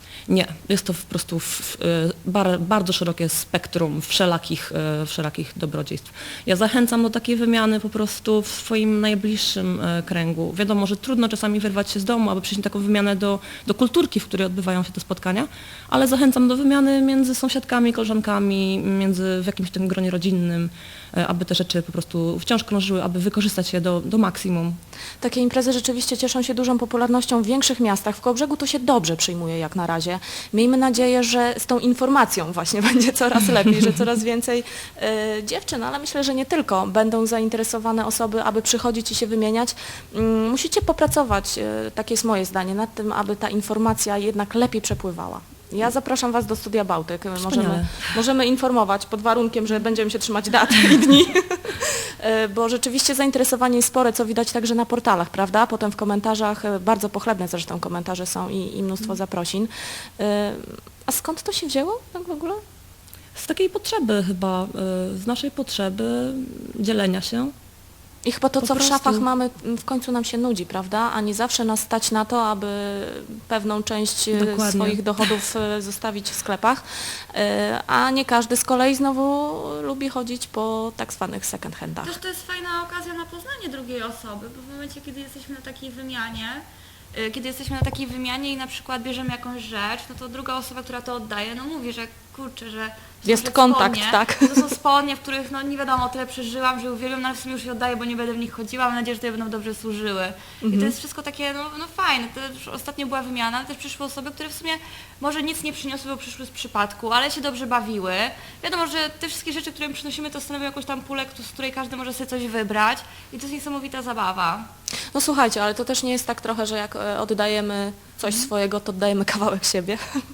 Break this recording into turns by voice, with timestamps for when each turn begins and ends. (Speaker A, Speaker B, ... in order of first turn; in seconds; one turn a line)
Speaker A: 0.3-24.8
Speaker B: 25.2-62.6
Speaker A: 47.4-48.1
Speaker A: 63.3-67.5
Speaker B: 68.2-82.1
Speaker A: 68.6-69.2
Speaker A: 74.3-75.0
Speaker C: 82.0-114.7
Speaker B: 93.2-94.7
Speaker B: 100.6-100.9
Speaker B: 115.1-120.0